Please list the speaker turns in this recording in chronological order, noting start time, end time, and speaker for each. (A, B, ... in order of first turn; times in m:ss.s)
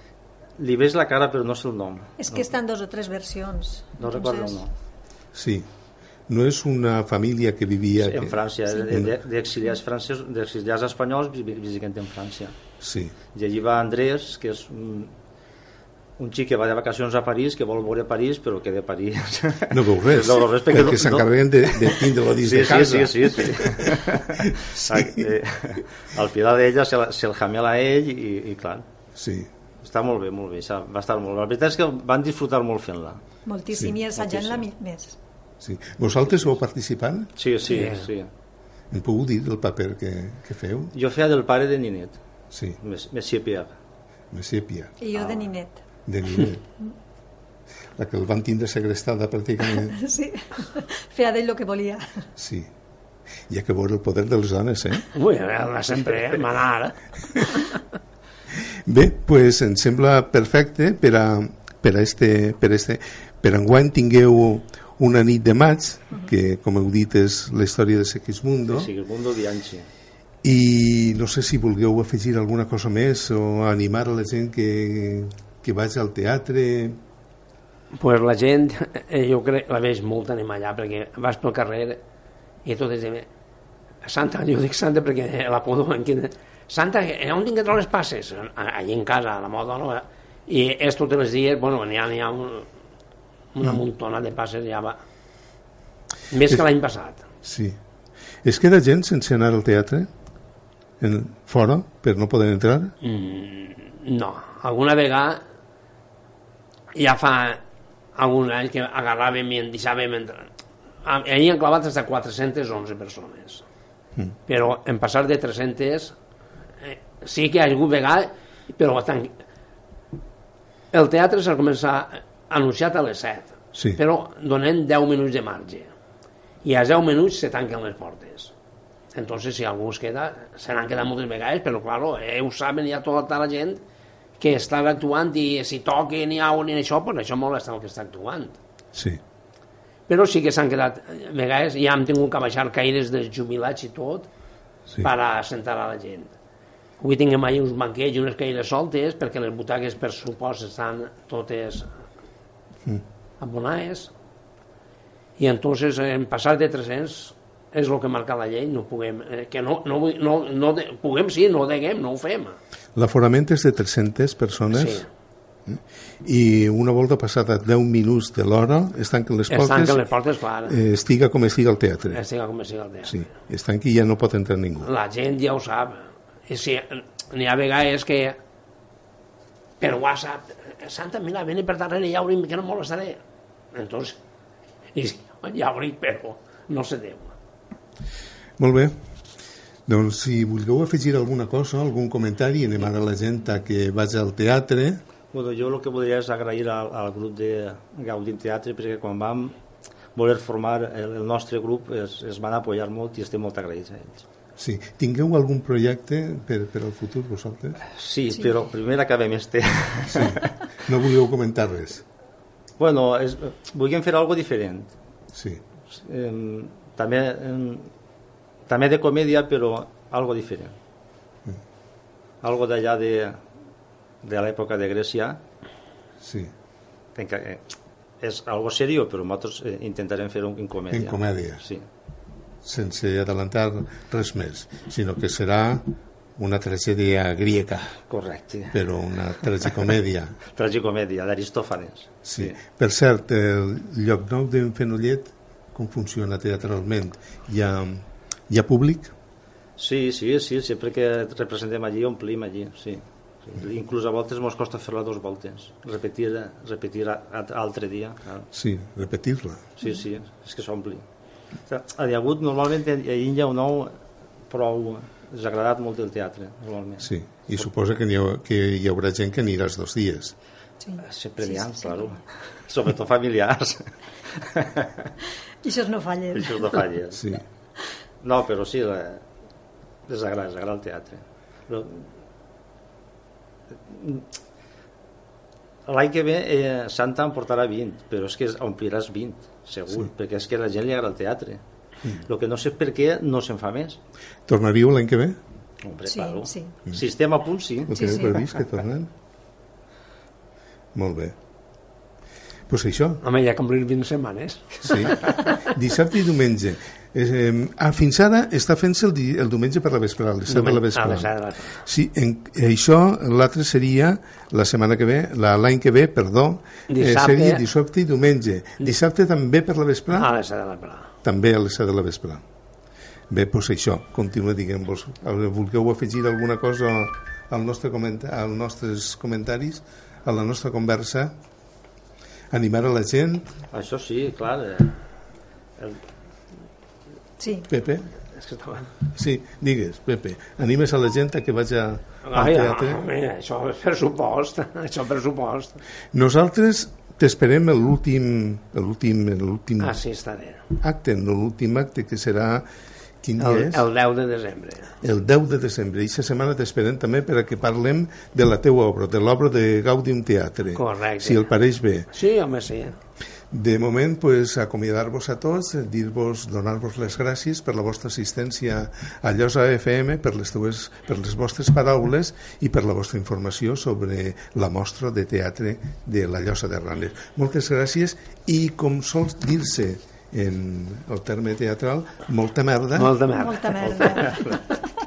0:00.6-0:02.5 A
0:02.2-0:04.6 B
0:04.0-0:04.7 A
0:05.3-0:05.7 C
0:06.3-0:08.4 C
0:08.0-0:12.6 A
0:12.8-0:13.2 C
0:13.3-0:15.1 A
0:16.2-0:28.9 A
0:19.7-0:25.0 C
0:29.2-0:29.5 C
0:29.8-0:33.2 A
0:33.5-0:35.2 B
0:33.7-0:34.0 C
0:34.2-0:34.7 A
0:35.6-0:37.3 C
0:37.4-0:38.3 A
0:37.6-0:38.1 D
0:38.9-0:40.9 C
0:40.9-0:42.2 A
0:42.5-0:42.8 C
0:42.8-0:43.7 A
0:44.3-0:45.0 C
0:45.0-0:45.8 B
0:45.1-0:45.6 A
0:46.1-0:46.6 C
0:48.0-0:50.0 C
0:49.8-0:52.2 B
0:52.4-0:52.7 C
0:53.5-0:55.1 C
0:55.1-0:57.7 D
0:58.9-1:08.9 C
1:08.7-1:09.9 A
1:10.4-1:17.0 C
1:17.9-1:22.0 D
1:22.6-1:23.3 D
1:24.0-1:32.7 D
1:33.5-1:35.0 D
1:36.3-1:37.2 D
1:37.4-1:37.8 C
1:38.4-1:40.1 C
1:41.0-1:42.9 C
1:43.0-1:45.4 D
1:46.9-1:47.6 D
1:48.2-1:50.5 D
1:51.0-1:53.6 D
1:54.5-1:56.2 D
1:56.8-1:59.3 D
2:00.9-2:05.9 D
2:06.6-2:08.5 D
2:09.1-2:13.8 D
2:14.4-2:18.6 D
2:19.0-2:19.2 C
2:20.1-2:24.3 D
2:25.0-2:26.3 D
2:27.0-2:31.9 D
2:33.4-2:34.1 D
2:35.4-2:42.6 D
2:43.0-2:45.0 C
2:44.7-2:45.1 D
2:45.7-2:50.1 C
2:49.5-2:50.8 D
2:50.7-2:52.2 C
2:52.1-2:53.2 D
2:53.0-2:54.9 C
2:54.8-2:58.4 D
2:59.8-3:03.2 D
3:03.7-3:04.2 D
3:04.9-3:07.3 D
3:08.6-3:08.9 C
3:09.9-3:15.0 C
3:15.3-3:19.6 A
3:20.2-3:24.2 A
3:24.6-3:27.8 C
3:27.9-3:30.5 A
3:30.1-3:32.0 C
3:32.8-3:34.9 A
3:35.3-3:35.6 C
3:35.9-3:37.9 A
3:38.7-3:40.8 A
3:42.4-3:43.4 A
3:44.2-3:45.4 A
3:46.2-3:46.5 C
3:47.2-3:47.6 A
3:48.2-3:51.8 A
3:50.9-3:51.6 C
3:52.6-3:58.0 C
3:58.1-3:58.8 A
3:58.7-4:00.4 C
4:00.5-4:02.6 A
4:02.3-4:09.1 C
4:09.8-4:18.5 A
4:18.5-4:19.6 C
4:19.8-4:21.0 A
4:21.7-4:24.0 A
4:24.5-4:27.6 A
4:27.0-4:30.3 C
4:30.8-4:32.0 B
4:31.0-4:35.1 A
4:35.6-4:36.7 B
4:36.3-4:37.4 A
4:37.2-4:37.4 C
4:38.2-4:39.2 A
4:40.1-4:42.1 A
4:43.9-4:44.3 A
4:45.9-4:51.6 A
4:52.3-4:54.0 A
4:54.5-4:55.4 C
4:55.8-4:58.5 A
4:56.1-4:56.8 B
4:57.9-4:59.1 C
4:57.9-4:58.4 B
5:01.0-5:01.4 C
5:02.7-5:03.2 C
5:03.2-5:05.6 D
5:04.8-5:20.3 C
5:10.5-5:11.8 D
5:16.9-5:17.6 D
5:20.1-5:21.1 D
5:21.2-5:22.4 C
5:23.3-5:31.3 C
5:32.5-5:33.5 C
5:33.7-5:35.0 A
5:37.4-5:37.7 B
5:37.7-5:38.1 C
5:38.3-5:38.9 D
5:39.2-5:43.0 C
5:42.2-5:45.8 D
5:46.1-5:50.0 C
5:49.8-5:50.6 D
5:50.8-5:52.6 C
5:53.2-5:53.9 C
5:53.4-5:54.9 D
5:55.0-6:02.1 C
6:00.8-6:01.5 D
6:02.1-6:03.0 D
6:03.5-6:23.1 C
6:23.0-6:24.4 D
6:23.4-6:24.9 B
6:23.8-6:24.7 A